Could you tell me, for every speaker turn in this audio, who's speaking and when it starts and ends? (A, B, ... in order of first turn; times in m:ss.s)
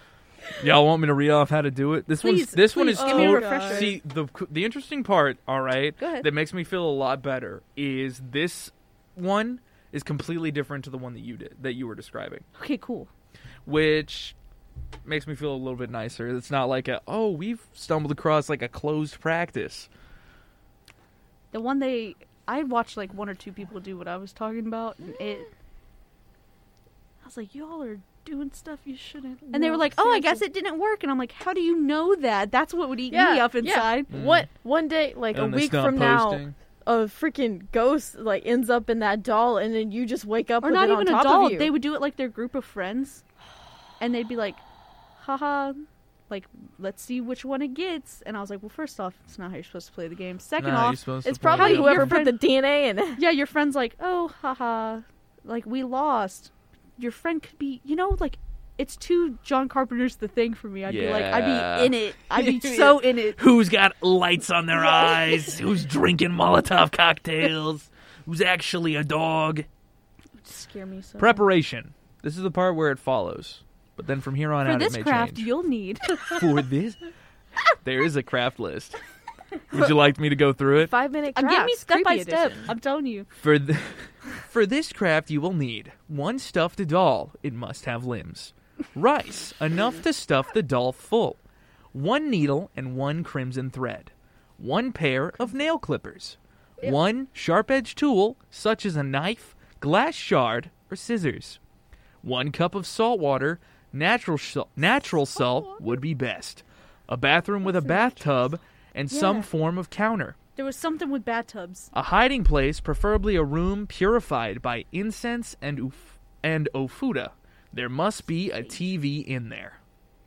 0:00.6-0:12.4 A
0:02.2-0:04.0 B
0:02.9-0:03.9 C
0:06.0-0:06.3 B
0:12.6-0:13.1 B
0:13.6-0:14.4 A
0:15.0-0:19.9 A
0:21.5-0:25.5 B
0:27.2-0:34.1 B
0:29.5-0:30.4 C
0:33.1-0:41.7 C
0:34.1-0:34.5 A
0:35.3-0:36.5 A
0:40.6-0:43.2 B
0:44.0-0:44.6 B
0:45.2-0:52.4 B
0:50.6-0:52.2 A
0:51.2-0:53.2 C
0:53.2-1:03.4 B
1:00.8-1:09.7 A
1:10.4-1:11.4 B
1:11.2-1:15.5 A
1:14.6-1:16.4 B
1:16.2-1:17.0 A
1:17.8-1:19.0 A
1:19.7-1:20.9 A
1:20.8-1:22.7 C
1:21.3-1:23.3 B
1:23.4-1:31.4 A
1:31.9-1:41.6 A
1:42.2-1:50.4 A
1:49.1-1:49.5 B
1:50.6-1:51.9 B
1:51.9-1:59.8 A